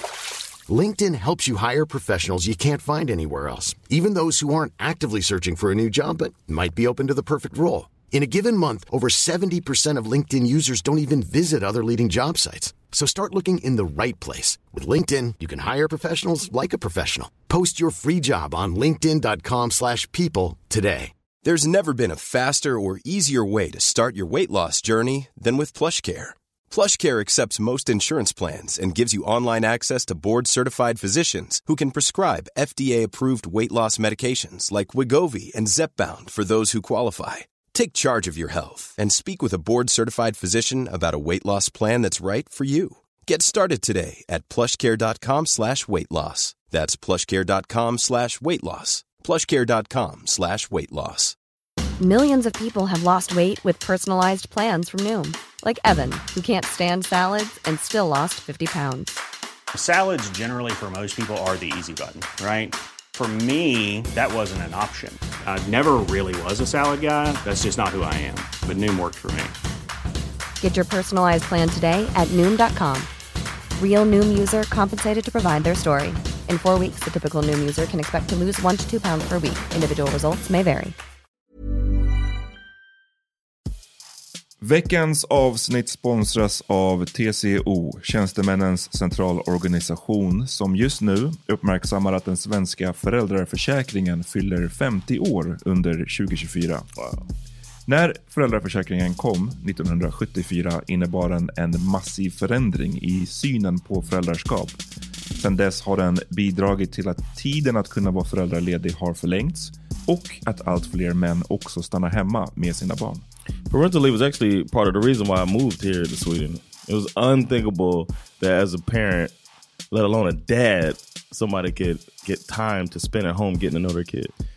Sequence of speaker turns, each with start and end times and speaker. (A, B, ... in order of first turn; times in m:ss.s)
0:00.7-0:21.1 A
0:21.4-0:51.4 B
0:52.0-0:59.2 C
0:59.7-1:09.5 D
1:10.6-1:13.1 C
1:13.8-1:21.0 C
1:24.6-1:36.9 E
1:37.9-1:44.8 E
1:45.4-1:53.2 E
1:53.7-1:59.4 F
1:59.9-2:04.3 F